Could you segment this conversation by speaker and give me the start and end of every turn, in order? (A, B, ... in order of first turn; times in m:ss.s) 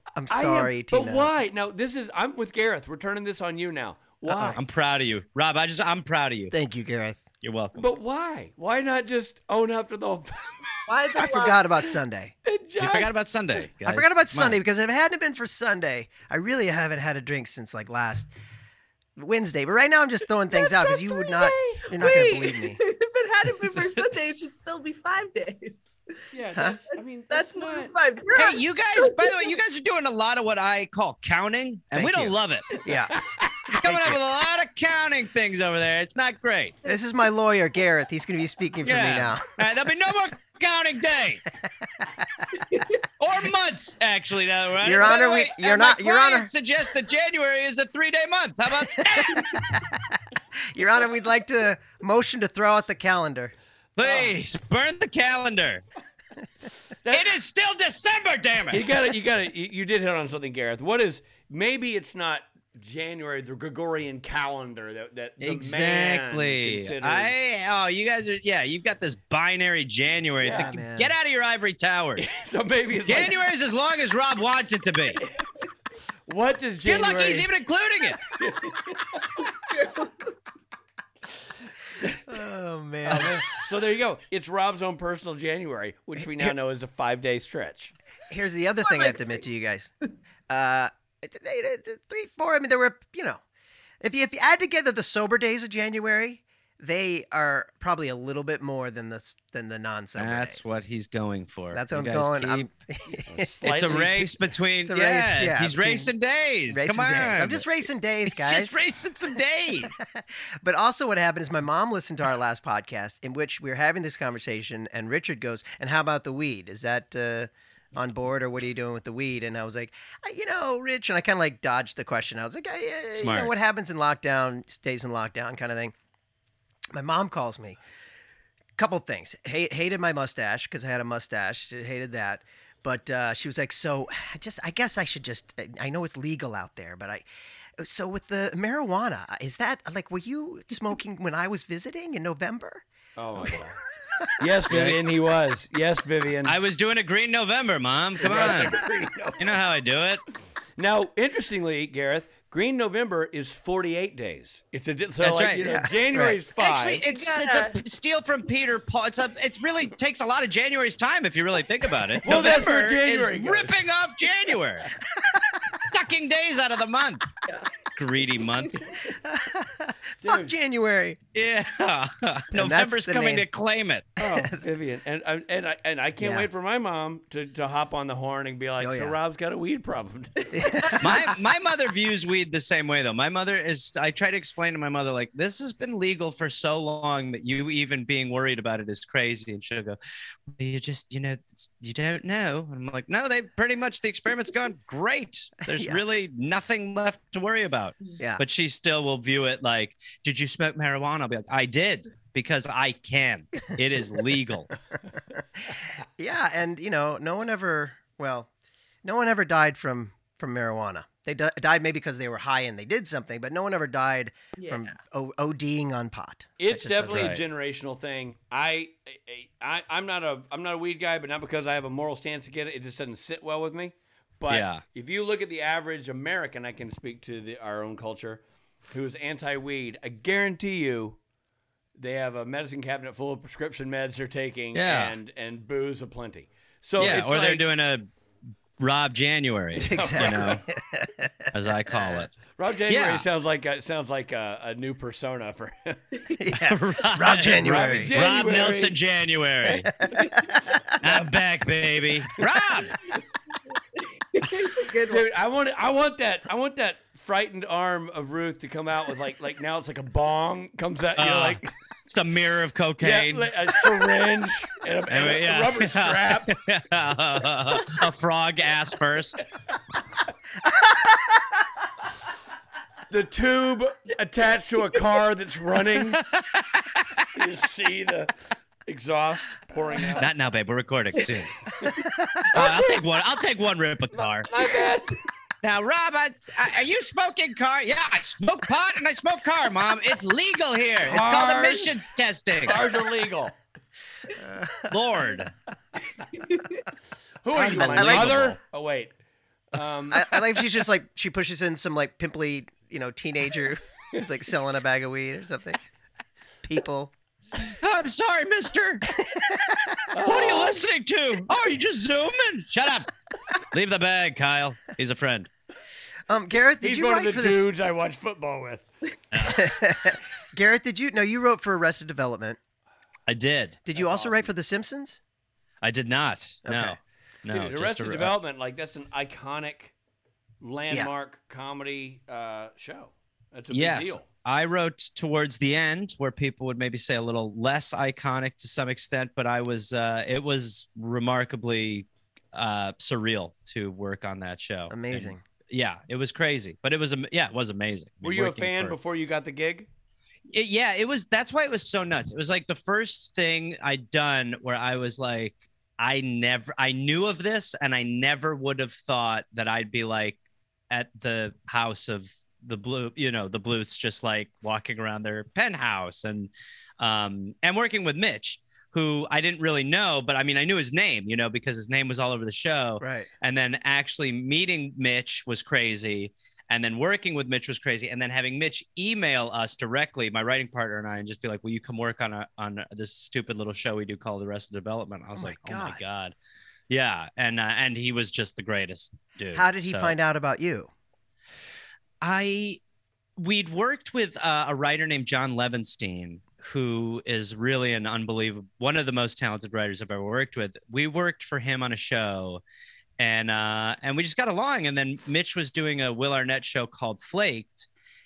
0:00.1-0:01.3 A
0:00.3-0:04.6 B
0:04.2-0:04.6 A
0:04.5-0:06.5 C
0:06.5-0:07.2 A
0:07.4-0:07.9 C
0:07.7-0:11.6 B
0:10.9-0:11.6 D
0:11.2-0:12.3 A
0:12.4-0:13.6 B
0:12.8-0:14.6 C
0:13.8-0:18.3 A
0:19.2-0:22.8 A
0:20.5-0:26.0 D
0:21.4-0:22.1 B
0:23.6-0:24.1 C
0:26.3-0:27.9 B
0:27.3-0:29.5 D
0:28.3-0:32.8 C
0:31.9-0:33.2 A
0:33.2-0:33.6 B
0:33.7-0:36.8 C
0:33.7-0:34.2 A
0:36.8-0:39.6 A
0:38.8-0:41.6 C
0:43.2-0:49.7 C
0:44.8-0:46.5 A
0:49.0-0:49.9 A
0:50.7-0:53.5 A
0:54.0-0:55.8 C
0:54.0-0:54.3 B
0:57.0-0:57.3 B
0:57.1-0:58.8 C
0:58.7-1:07.3 B
1:05.4-1:12.3 C
1:10.4-1:10.7 B
1:10.4-1:11.1 A
1:12.2-1:13.4 B
1:13.0-1:15.2 C
1:16.3-1:17.5 B
1:16.8-1:18.2 C
1:18.3-1:19.5 B
1:19.6-1:20.3 D
1:22.3-1:23.5 A
1:23.0-1:27.9 B
1:28.3-1:29.9 A
1:28.8-1:29.4 D
1:30.5-1:33.4 A
1:34.0-1:40.6 A
1:40.2-1:42.7 C
1:41.7-1:43.5 A
1:43.3-1:44.3 B
1:43.6-1:47.6 C
1:44.8-1:46.1 A
1:46.7-1:48.8 A
1:48.2-1:50.0 C
1:49.8-2:05.9 A
2:03.1-2:03.5 C
2:06.9-2:07.8 A
2:08.8-2:17.2 A
2:17.8-2:22.8 A
2:23.2-2:23.8 B
2:24.4-2:26.6 B
2:24.7-2:25.0 C
2:26.4-2:28.8 C
2:28.2-2:29.5 B
2:29.4-2:30.2 C
2:30.8-2:37.0 B
2:35.2-2:35.8 C
2:35.6-2:36.4 A
2:36.6-2:44.9 C
2:37.1-2:37.8 D
2:42.2-2:43.8 B
2:45.2-2:45.4 A
2:45.9-2:47.2 C
2:47.9-2:48.9 C
2:49.1-2:51.2 A
2:50.2-2:50.5 B
2:51.3-2:54.1 C
2:52.5-2:53.4 A
2:54.2-3:00.5 B
2:56.2-2:56.5 A
2:58.8-2:59.1 A
3:00.5-3:01.3 A
3:00.6-3:01.0 D
3:01.0-3:10.0 C
3:10.5-3:24.7 C
3:15.7-3:16.0 A
3:26.2-3:28.5 A
3:29.0-3:37.3 A
3:34.6-3:34.9 D
3:36.6-3:51.2 B
3:37.0-3:37.4 C
3:44.5-3:44.8 C
3:52.0-3:57.7 B
3:54.7-3:55.1 C
3:57.0-3:58.0 C
3:58.8-4:00.6 C
3:59.8-4:01.5 A
3:59.8-4:00.6 B
4:01.5-4:02.4 C
4:02.5-4:06.0 B
4:02.9-4:03.2 C
4:06.3-4:08.1 A
4:06.6-4:09.9 C
4:07.5-4:08.9 B
4:09.8-4:10.8 A
4:11.0-4:13.0 C
4:14.3-4:15.2 D
4:15.0-4:21.7 B
4:21.2-4:23.5 C
4:23.0-4:26.6 B
4:25.1-4:29.4 C
4:30.9-4:31.2 A
4:33.1-4:36.2 B
4:36.2-4:37.2 C
4:37.3-4:38.3 B
4:38.8-4:40.3 B
4:40.1-4:41.6 C
4:42.5-4:44.5 C
4:42.5-4:42.9 B
4:44.5-4:45.2 B
4:45.6-4:52.8 C
4:51.0-4:52.0 B
4:52.6-4:53.6 B
4:54.4-4:54.9 A
4:54.9-4:55.5 C
4:56.4-4:56.8 D
4:57.4-4:59.1 B
4:57.6-4:58.5 A
4:57.6-4:58.6 C
4:59.7-5:00.6 B
5:00.1-5:05.8 A
5:06.6-5:07.1 A
5:07.6-5:09.0 C
5:09.1-5:10.0 A
5:10.1-5:10.8 B
5:10.2-5:15.5 C
5:16.3-5:17.7 A
5:16.8-5:18.9 B
5:19.3-5:19.7 C
5:19.4-5:22.6 A
5:23.3-5:23.8 C
5:23.8-5:25.2 A
5:24.0-5:24.4 B
5:25.8-5:28.3 C
5:26.6-5:27.0 A
5:27.5-5:29.9 B
5:30.6-5:34.3 B
5:33.7-5:49.0 C
5:44.9-5:45.4 A
5:48.2-5:49.9 B
5:50.5-6:00.4 C
6:00.9-6:26.3 C
6:13.0-6:13.3 A
6:25.3-6:26.0 A
6:26.9-6:30.1 C
6:29.5-6:30.9 A
6:32.2-6:32.8 C
6:33.4-6:42.6 C
6:43.2-6:47.9 C